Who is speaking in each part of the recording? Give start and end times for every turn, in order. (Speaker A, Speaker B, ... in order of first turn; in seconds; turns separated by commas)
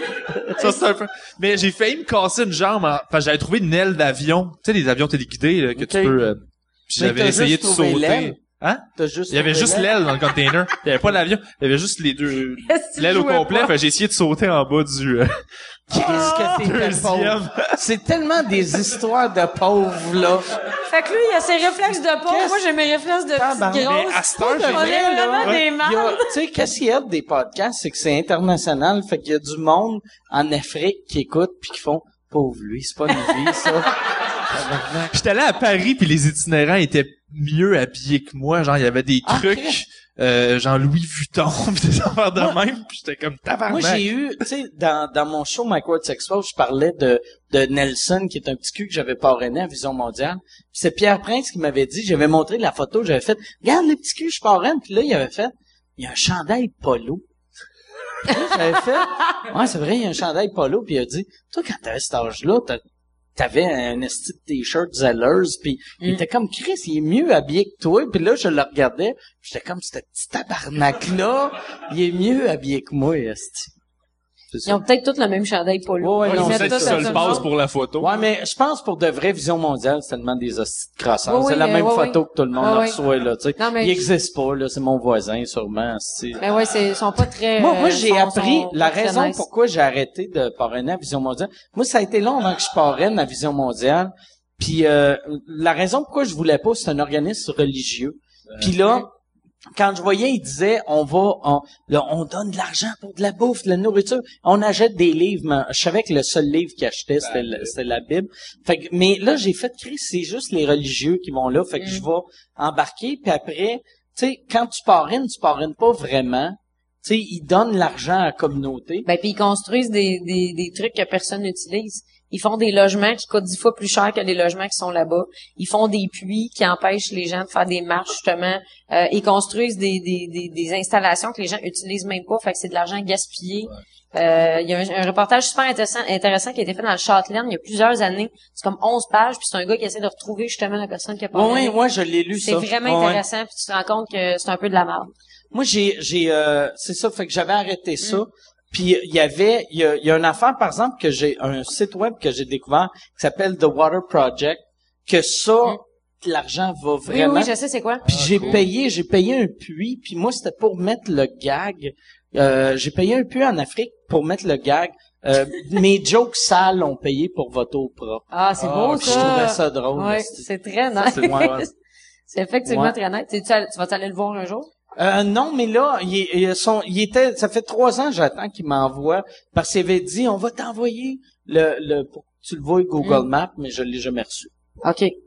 Speaker A: 0.6-15.4, Speaker B: 5.8-6.2, Speaker B: 7.0-8.4, Speaker B: 9.0-9.9, Speaker C: 12.7-13.7, Speaker B: 15.9-20.5, Speaker A: 15.9-17.7, Speaker C: 15.9-16.5, Speaker C: 20.9-26.3, Speaker B: 22.2-22.6, Speaker B: 23.3-33.9, Speaker A: 23.8-25.6, Speaker B: 34.5-35.1, Speaker A: 35.1-44.1, Speaker B: 39.2-39.8, Speaker B: 43.7-57.2, Speaker B: 58.2-62.8, Speaker B: 63.4-73.7, Speaker C: 74.6-77.5, Speaker B: 76.0-86.4, Speaker A: 76.2-78.1, Speaker C: 81.2-83.0, Speaker C: 83.6-84.1, Speaker C: 86.4-89.5, Speaker B: 87.6-99.1, Speaker B: 99.7-119.1, Speaker A: 107.2-107.7, Speaker C: 111.8-112.0, Speaker C: 119.0-141.8, Speaker B: 141.3-143.2, Speaker C: 142.3-145.1, Speaker B: 145.5-157.5, Speaker C: 157.1-158.6, Speaker B: 158.1-170.4, Speaker A: 158.1-158.6, Speaker C: 168.3-171.7, Speaker A: 168.7-169.5, Speaker B: 171.0-171.6, Speaker C: 172.3-174.7, Speaker B: 172.7-172.9, Speaker B: 174.9-184.5, Speaker C: 183.0-183.2, Speaker C: 184.8-185.1